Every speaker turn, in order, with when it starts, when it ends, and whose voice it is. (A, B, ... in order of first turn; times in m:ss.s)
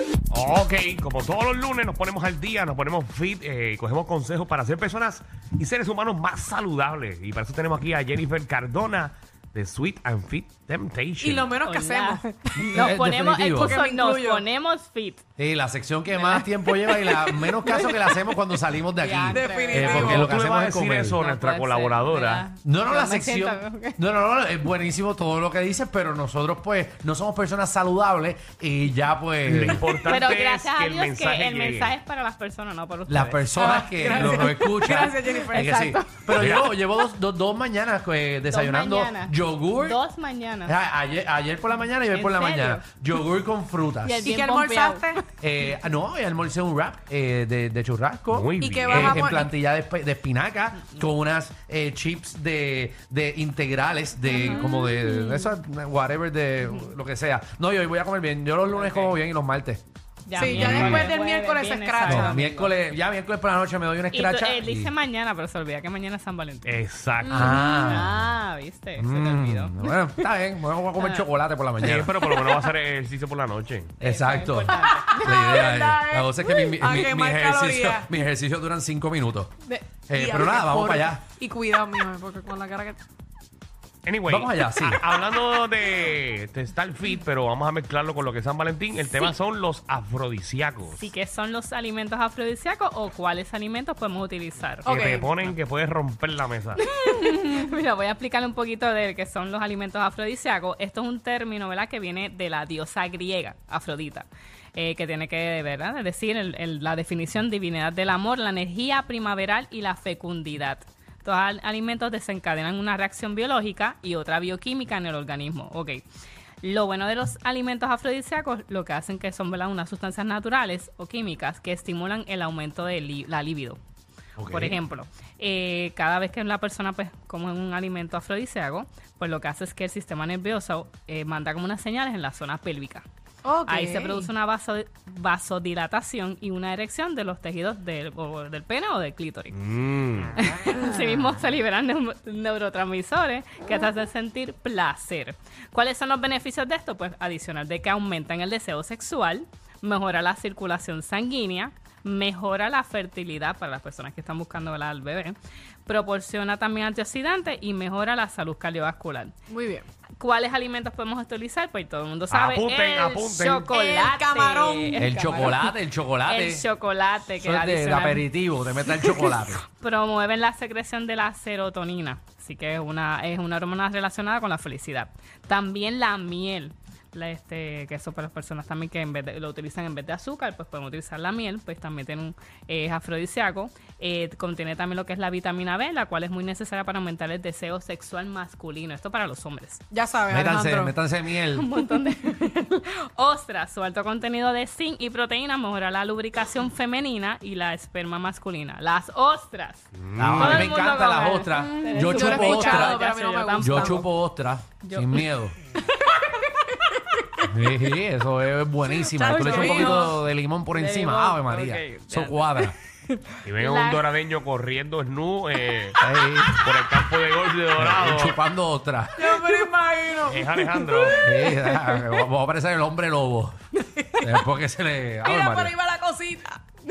0:00.3-0:11.5 A
0:11.2-0:12.6 B
0:11.6-0:15.2 C
0:12.6-0:13.8 D
0:13.5-0:14.4 B
0:15.4-0:21.2 D
0:16.2-0:16.4 C
0:17.7-0:18.0 B
0:19.0-0:20.3 C
0:19.3-0:20.3 B
0:20.0-0:22.5 A
0:21.2-0:24.0 C
0:22.6-0:29.8 D
0:29.5-0:31.9 A
0:30.0-0:33.5 C
0:33.1-0:40.0 D
0:33.6-0:36.0 B
0:36.4-0:36.7 A
0:38.5-0:40.8 C
0:40.7-0:44.3 D
0:42.1-0:42.8 C
0:44.0-0:45.1 C
0:44.2-0:45.2 B
0:45.4-0:59.8 D
0:48.3-0:49.3 A
0:48.6-0:49.5 B
0:54.4-0:54.6 C
0:54.4-0:55.5 B
0:58.7-0:59.2 C
1:00.3-1:02.7 C
1:00.4-1:02.4 B
1:00.5-1:01.1 D
1:02.1-1:04.9 D
1:04.1-1:06.8 C
1:06.7-1:07.5 A
1:07.3-1:08.2 D
1:07.3-1:08.0 B
1:07.5-1:10.0 C
1:09.0-1:12.1 D
1:11.0-1:11.3 C
1:11.8-1:13.9 A
1:14.0-1:19.5 D
1:14.0-1:15.2 C
1:15.1-1:18.1 B
1:19.6-1:23.0 B
1:20.1-1:21.2 D
1:24.0-1:31.1 A
1:24.3-1:25.0 D
1:30.9-1:34.9 C
1:34.8-1:35.3 B
1:34.9-1:36.8 A
1:36.8-1:56.0 C
1:56.6-2:03.8 C
2:04.4-2:04.8 D
2:04.5-2:13.1 C
2:13.4-2:14.3 B
2:13.7-2:19.6 C
2:19.5-2:20.4 A
2:20.4-2:39.4 C
2:39.5-2:39.9 B
2:40.2-2:45.7 C
2:42.3-2:43.7 A
2:43.7-2:45.4 B
2:45.0-2:46.6 D
2:46.3-2:48.3 C
2:47.4-2:49.6 D
2:49.1-3:09.8 C
3:09.9-3:10.9 B
3:10.3-3:11.7 D
3:11.5-3:24.1 C
3:20.0-3:20.8 A
3:20.2-3:23.0 D
3:21.6-3:24.0 B
3:23.6-3:25.6 D
3:24.8-3:25.3 C
3:26.7-3:27.4 B
3:27.5-3:32.8 D
3:29.1-3:30.2 B
3:29.3-3:30.1 C
3:30.7-3:34.0 C
3:33.5-3:38.4 A
3:36.0-3:36.6 D
3:37.8-3:39.4 D
3:39.2-3:41.7 B
3:40.3-3:41.2 A
3:41.2-3:43.6 D
3:43.9-3:44.3 B
3:44.2-3:45.7 D
3:45.2-3:46.6 B